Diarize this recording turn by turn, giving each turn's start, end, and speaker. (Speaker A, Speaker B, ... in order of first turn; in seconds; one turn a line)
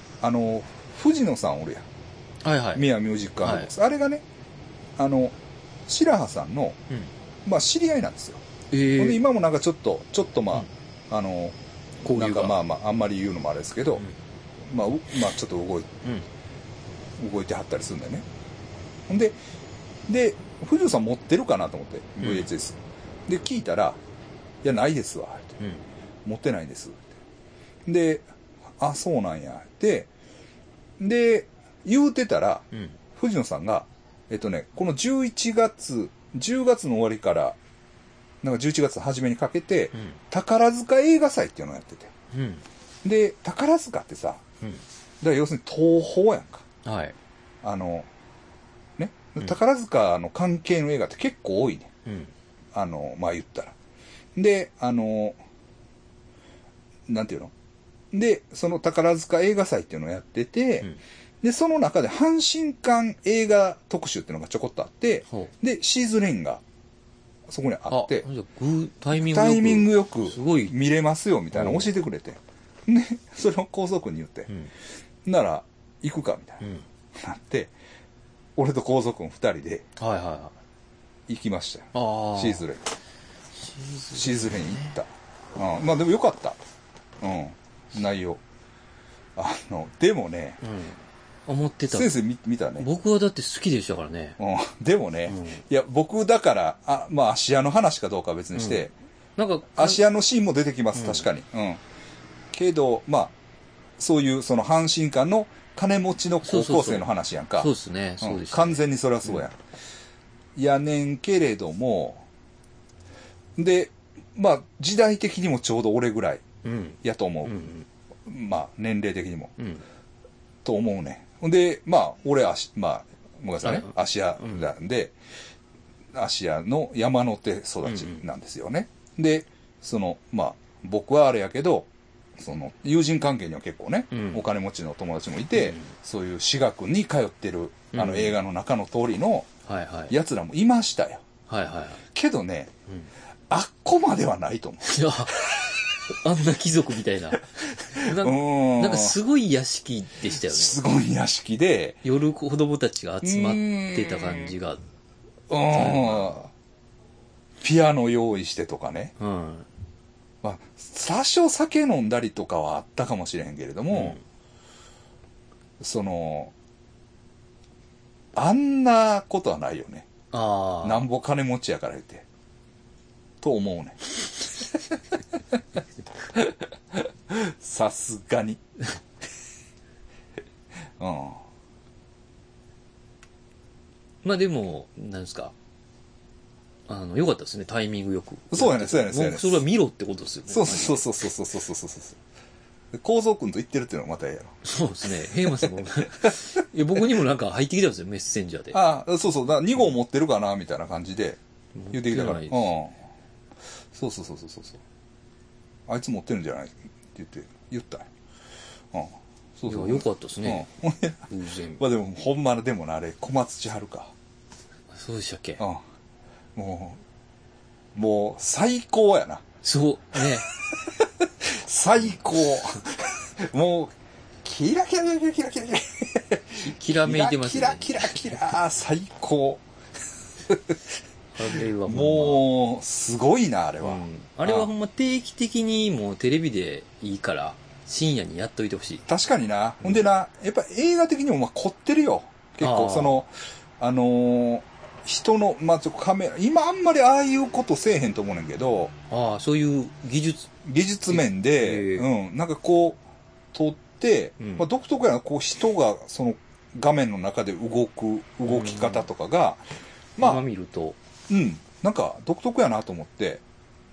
Speaker A: 0.2-1.9
Speaker B: 2.4-2.9
Speaker A: 2.8-4.2
Speaker B: 3.4-3.7
Speaker A: 5.0-6.8
Speaker A: 7.5-8.4
Speaker B: 8.7-9.2
Speaker A: 9.0-11.6
Speaker B: 12.0-12.6
Speaker A: 12.1-14.1
Speaker A: 14.7-15.9
Speaker A: 17.2-18.3
Speaker A: 19.1-19.4
Speaker A: 20.1-24.0
Speaker B: 22.2-22.5
Speaker A: 24.6-25.6
Speaker B: 25.6-25.9
Speaker A: 26.2-27.1
Speaker A: 27.9-28.3
Speaker A: 28.8-30.1
Speaker A: 31.0-37.6
Speaker A: 38.4-42.1
Speaker B: 39.9-40.2
Speaker B: 42.3-42.6
Speaker A: 43.0-44.4
Speaker A: 45.2-46.6
Speaker B: 46.8-47.1
Speaker A: 47.6-48.1
Speaker A: 49.0-51.9
Speaker B: 52.1-52.3
Speaker A: 52.7-53.8
Speaker A: 54.4-55.4
Speaker A: 57.1-57.5
Speaker A: 58.1-60.9
Speaker A: 61.4-66.6
Speaker A: 67.5-68.3
Speaker B: 67.9-70.8
Speaker A: 69.2-74.5
Speaker B: 71.5-71.9
Speaker A: 75.2-76.6
Speaker A: 77.1-77.7
Speaker A: 78.6-79.9
Speaker B: 80.0-80.5
Speaker A: 81.3-82.8
Speaker B: 81.9-82.6
Speaker B: 83.6-85.0
Speaker A: 84.1-86.6
Speaker A: 87.2-88.4
Speaker A: 89.4-90.6
Speaker B: 90.6-92.1
Speaker A: 91.9-92.9
Speaker B: 92.8-94.4
Speaker A: 94.4-98.9
Speaker B: 95.3-95.6
Speaker B: 98.5-98.8
Speaker B: 99.4-100.0
Speaker A: 99.8-101.8
Speaker B: 100.9-101.3
Speaker A: 102.5-103.3
Speaker A: 104.0-109.6
Speaker B: 106.4-109.4
Speaker A: 110.6-112.2
Speaker A: 113.6-116.4
Speaker B: 116.6-117.9
Speaker A: 117.0-117.5
Speaker A: 118.3-119.5
Speaker B: 119.6-119.8
Speaker A: 120.6-125.2
Speaker B: 123.6-124.7
Speaker A: 126.1-139.5
Speaker B: 127.8-128.2
Speaker B: 134.1-134.4
Speaker B: 135.6-135.9
Speaker B: 137.9-138.4
Speaker B: 139.7-140.2
Speaker A: 140.1-141.2
Speaker B: 141.5-142.0
Speaker A: 142.1-142.7
Speaker A: 143.5-145.6
Speaker B: 144.8-145.5
Speaker B: 146.1-150.8
Speaker A: 147.9-149.2
Speaker A: 150.4-152.0
Speaker B: 152.0-154.8
Speaker A: 153.2-154.5
Speaker A: 155.5-156.5
Speaker B: 155.7-156.4
Speaker A: 157.6-159.1
Speaker B: 159.2-159.7
Speaker A: 160.4-164.2
Speaker B: 163.9-164.2
Speaker A: 165.8-166.5
Speaker A: 168.3-170.1
Speaker B: 170.3-171.1
Speaker A: 170.8-172.3
Speaker A: 173.4-174.0
Speaker A: 176.9-178.6
Speaker A: 181.0-181.4
Speaker B: 184.2-185.6
Speaker B: 186.9-191.1
Speaker A: 188.5-189.6
Speaker A: 190.5-192.2
Speaker A: 192.9-194.6
Speaker B: 194.6-198.8
Speaker A: 195.5-196.3
Speaker A: 198.7-201.4
Speaker B: 201.8-202.7
Speaker A: 201.9-203.0
Speaker A: 203.9-204.8
Speaker A: 205.9-208.1
Speaker A: 208.9-214.1
Speaker B: 209.7-210.7
Speaker B: 211.3-211.8
Speaker B: 214.9-215.6
Speaker A: 216.6-217.0
Speaker A: 217.9-219.4
Speaker B: 219.6-220.5
Speaker A: 220.7-229.6
Speaker B: 226.6-228.4
Speaker A: 230.5-230.9
Speaker B: 231.3-232.4
Speaker A: 231.5-234.7
Speaker B: 233.8-239.1
Speaker A: 239.1-248.9
Speaker B: 242.6-243.2
Speaker B: 249.1-250.5
Speaker A: 250.6-253.0
Speaker B: 251.1-252.1
Speaker A: 253.5-259.6
Speaker B: 254.4-254.7
Speaker B: 258.5-259.1
Speaker A: 260.2-260.4
Speaker B: 260.2-261.0
Speaker A: 261.3-263.4